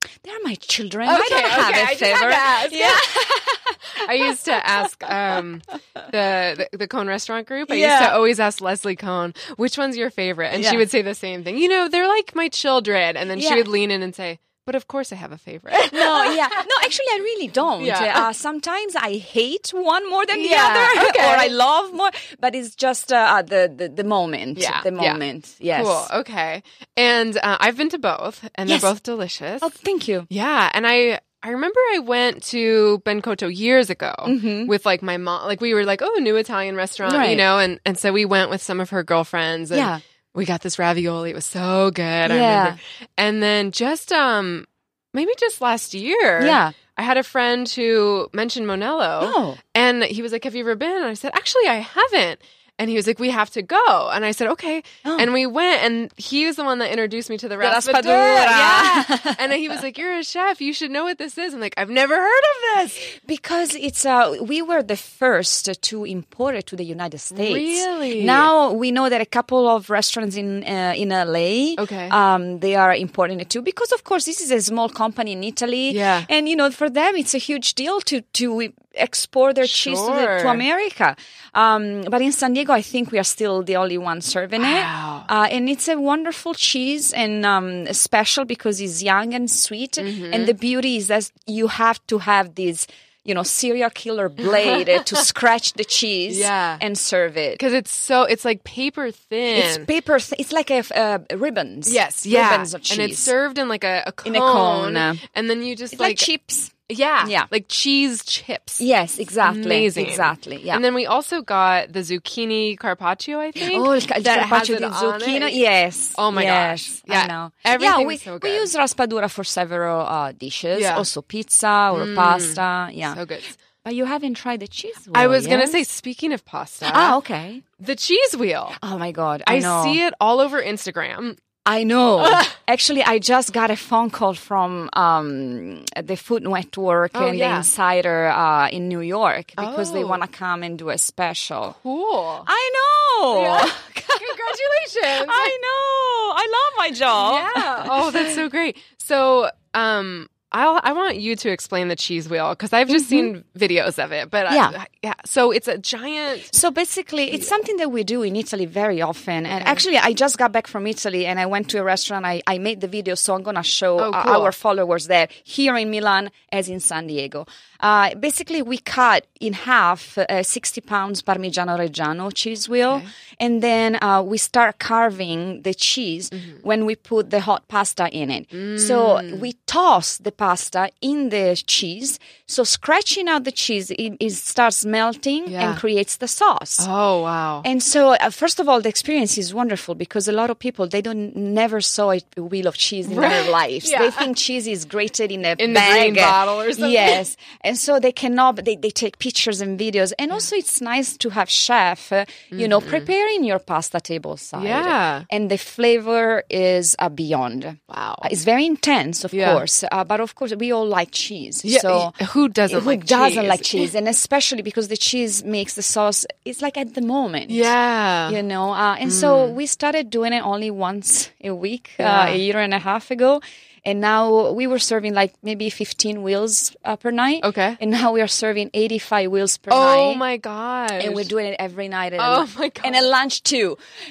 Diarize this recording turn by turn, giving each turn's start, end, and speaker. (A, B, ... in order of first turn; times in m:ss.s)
0:00.2-0:04.6 A
0:01.0-0:03.3 B
0:04.0-0:16.7 B
0:07.7-0:08.2 A
0:10.5-0:10.8 A
0:13.3-0:13.7 A
0:15.9-0:26.1 A
0:17.8-0:18.3 B
0:20.3-0:21.5 B
0:24.6-0:25.2 B
0:25.7-0:29.7 B
0:28.6-0:28.9 A
0:29.6-0:30.3 A
0:30.3-1:03.0 B
0:34.2-0:34.7 A
0:37.0-0:37.4 A
0:39.7-0:40.0 A
0:42.2-0:42.8 A
0:46.4-0:46.7 A
0:49.2-0:49.6 A
0:57.6-0:59.6 A
1:03.0-1:37.6 A
1:07.3-1:08.5 B
1:11.8-1:12.2 B
1:15.9-1:16.3 B
1:19.6-1:20.6 B
1:24.6-1:25.3 B
1:30.0-1:30.5 B
1:34.6-1:35.2 B
1:36.3-1:36.8 B
1:37.6-1:39.9 B
1:39.5-1:43.3 A
1:41.8-1:46.3 B
1:44.2-1:45.2 A
1:45.9-1:47.5 A
1:46.9-1:48.8 B
1:48.8-1:50.8 A
1:49.4-1:55.6 B
1:53.6-2:03.2 A
1:56.1-1:58.7 B
2:00.7-2:01.1 B
2:01.9-2:03.6 B
2:03.8-2:05.8 A
2:05.1-2:07.2 B
2:06.8-2:07.6 A
2:07.8-2:08.8 B
2:08.8-2:10.0 A
2:09.4-2:11.4 B
2:11.6-2:21.8 A
2:12.2-2:12.5 B
2:17.1-2:17.7 B
2:19.6-2:20.2 B
2:21.8-2:22.5 B
2:22.4-2:24.5 A
2:23.3-2:25.5 B
2:25.1-2:28.3 A
2:27.1-2:36.5 B
2:32.9-2:33.3 A
2:34.5-2:34.7 A
2:36.5-3:06.9 A
2:39.5-2:39.8 B
2:44.0-2:44.5 B
2:58.5-2:59.4 B
3:05.4-3:05.8 B
3:06.8-3:07.6 B
3:07.6-3:32.2 A
3:13.0-3:14.3 B
3:15.6-3:17.2 B
3:22.5-3:23.1 B
3:24.6-3:25.2 B
3:27.9-3:28.3 B
3:29.3-3:29.6 B
3:31.6-3:33.9 B
3:32.7-3:37.7 A
3:37.5-3:38.4 B
3:38.3-3:50.2 A
3:39.0-3:39.6 B
3:42.0-3:42.4 B
3:47.4-3:47.8 B
3:49.7-3:51.3 B
3:51.0-3:53.8 A
3:52.2-3:53.1 B